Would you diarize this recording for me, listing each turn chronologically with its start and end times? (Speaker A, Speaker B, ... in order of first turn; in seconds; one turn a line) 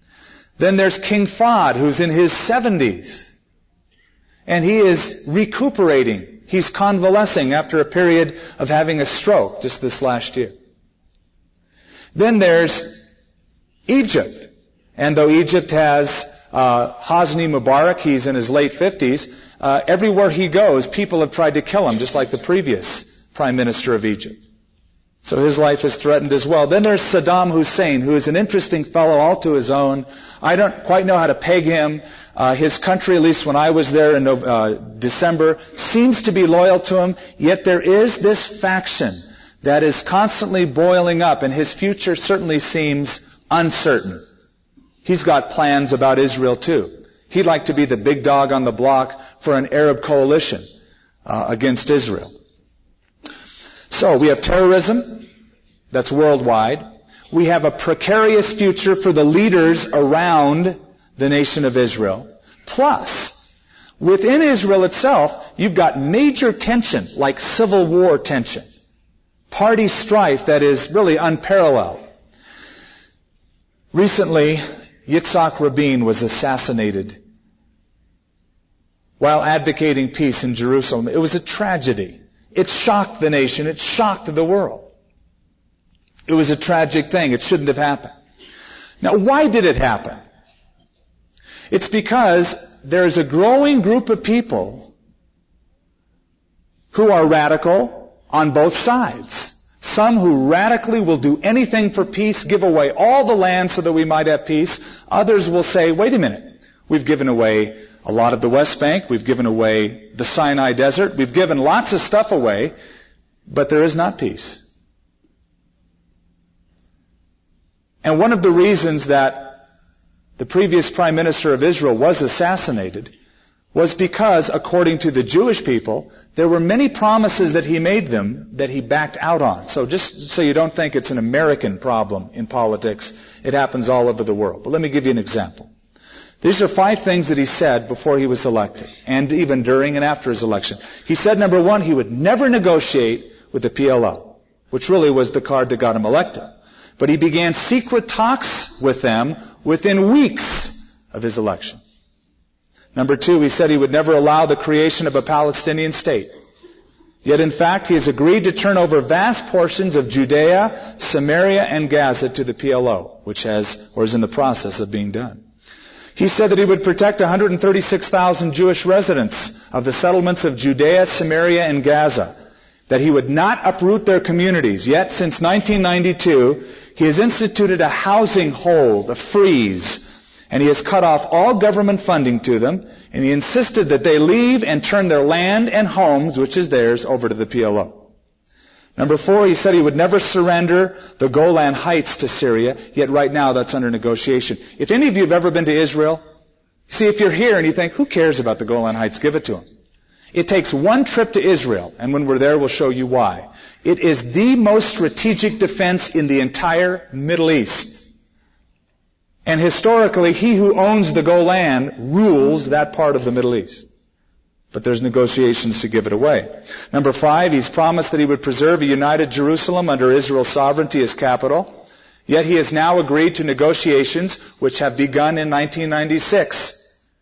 Speaker A: 0.6-3.3
Speaker A: 4.5-10.5
Speaker A: 12.1-13.1
Speaker A: 13.9-24.4
Speaker A: 25.2-44.2
Speaker A: 45.0-50.6
Speaker A: 51.2-52.3
Speaker A: 53.9-55.3
Speaker A: 55.9-63.5
Speaker A: 64.0-68.7
Speaker A: 69.5-72.0
Speaker A: 73.9-77.2
Speaker A: 79.2-84.9
Speaker A: 86.3-88.1
Speaker A: 89.0-90.2
Speaker A: 91.7-94.9
Speaker A: 96.9-112.7
Speaker A: 113.5-114.6
Speaker A: 118.0-119.6
Speaker A: 120.4-123.1
Speaker A: 123.7-135.7
Speaker A: 136.4-151.8
Speaker A: 152.9-156.3
Speaker A: 157.2-165.4
Speaker A: 166.2-172.3
Speaker A: 172.9-188.1
Speaker A: 189.0-196.2
Speaker A: 196.9-199.6
Speaker A: 200.3-208.1
Speaker A: 209.4-213.8
Speaker A: 214.7-226.8